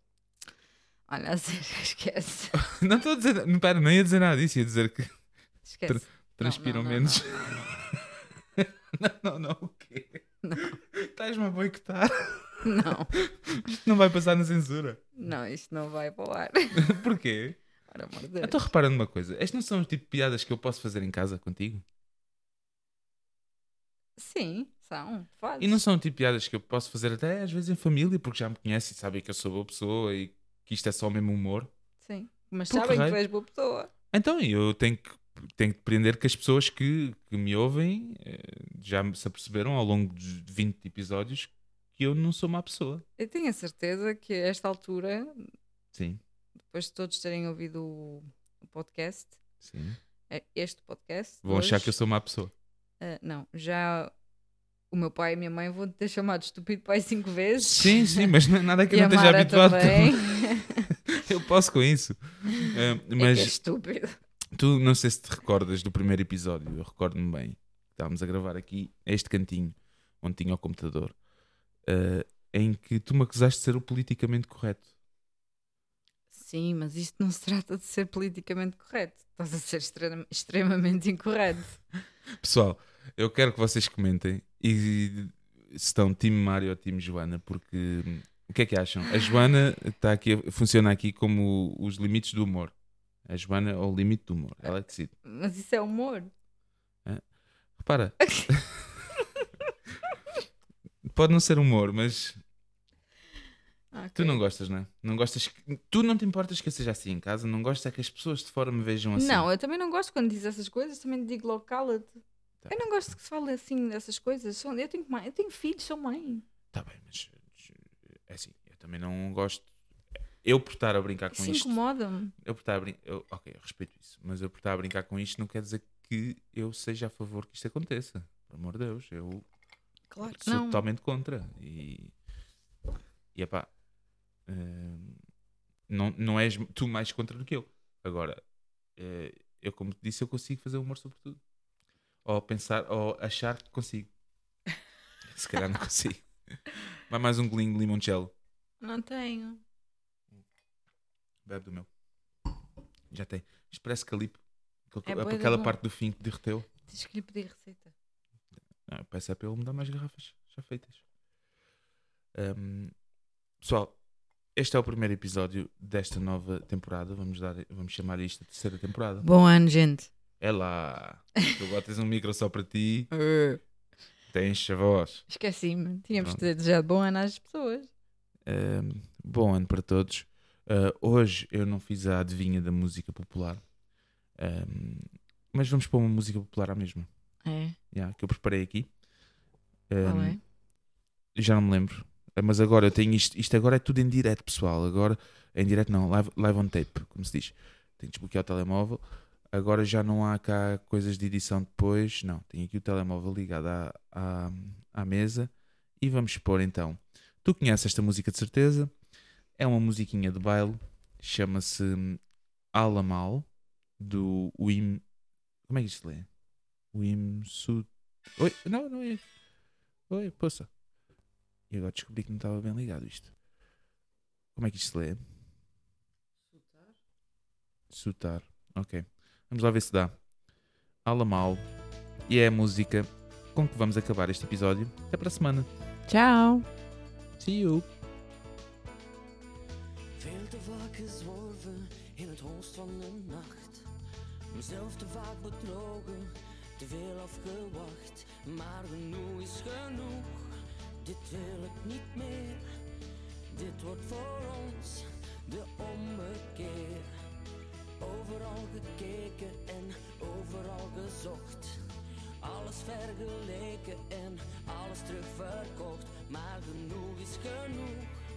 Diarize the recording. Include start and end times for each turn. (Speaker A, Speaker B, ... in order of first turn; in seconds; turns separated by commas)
Speaker A: 1.1-2.5, Speaker B: 2.6-5.1, Speaker A: 5.6-7.7, Speaker B: 5.9-8.0, Speaker B: 8.6-15.1, Speaker A: 10.4-10.8, Speaker A: 12.6-13.1, Speaker A: 15.2-16.9, Speaker B: 16.8-17.6, Speaker A: 17.9-18.6, Speaker B: 18.4-21.8, Speaker A: 24.2-25.8, Speaker B: 25.6-31.7, Speaker A: 32.0-33.9, Speaker B: 32.7-33.2, Speaker B: 34.1-43.0, Speaker A: 43.2-45.5, Speaker B: 45.9-46.2, Speaker A: 46.7-49.4, Speaker B: 49.6-50.0, Speaker A: 50.3-51.9, Speaker B: 51.4-52.5, Speaker A: 53.0-54.1, Speaker A: 54.9-58.3, Speaker B: 57.6-60.6, Speaker A: 58.9-60.9, Speaker B: 61.1-63.5, Speaker A: 63.2-64.2, Speaker B: 64.5-71.2, Speaker B: 71.8-74.9, Speaker A: 76.3-81.8, Speaker B: 82.4-92.7, Speaker B: 93.3-95.1, Speaker A: 95.2-96.3, Speaker B: 97.8-98.8, Speaker B: 101.1-102.4, Speaker A: 103.9-104.4, Speaker B: 104.1-109.5, Speaker A: 109.2-116.4, Speaker B: 116.7-119.7, Speaker B: 120.4-121.8, Speaker A: 121.3-122.3, Speaker B: 122.4-129.4, Speaker A: 130.1-130.8, Speaker B: 130.2-132.1, Speaker B: 133.3-133.7, Speaker B: 134.5-135.2, Speaker B: 135.9-138.4, Speaker B: 139.0-141.4, Speaker B: 142.2-144.1, Speaker B: 145.3-146.3, Speaker B: 147.1-148.3, Speaker A: 148.8-149.6, Speaker B: 151.4-151.9, Speaker B: 153.1-156.7, Speaker A: 155.1-155.8, Speaker A: 156.8-157.9, Speaker B: 158.9-161.0, Speaker B: 162.3-162.9, Speaker B: 163.6-163.9, Speaker B: 164.6-169.2, Speaker A: 169.2-170.1, Speaker B: 170.4-173.1, Speaker A: 173.1-173.6, Speaker B: 174.3-175.2, Speaker A: 175.3-177.9, Speaker B: 178.4-183.6, Speaker B: 184.4-187.1, Speaker A: 187.4-187.8, Speaker B: 187.9-188.9, Speaker B: 189.9-190.4, Speaker A: 190.0-190.4, Speaker B: 191.3-208.9, Speaker B: 209.6-212.2, Speaker B: 212.7-213.5, Speaker B: 214.0-215.0, Speaker B: 215.7-216.3, Speaker B: 216.9-219.2, Speaker B: 220.1-220.7, Speaker B: 221.7-223.3, Speaker B: 224.5-225.2, Speaker B: 227.9-230.2, Speaker B: 231.0-231.6, Speaker B: 232.3-235.7, Speaker A: 236.1-236.7, Speaker B: 237.4-237.8, Speaker C: 240.2-243.9, Speaker C: 244.5-252.7, Speaker C: 253.5-257.1, Speaker C: 258.0-268.2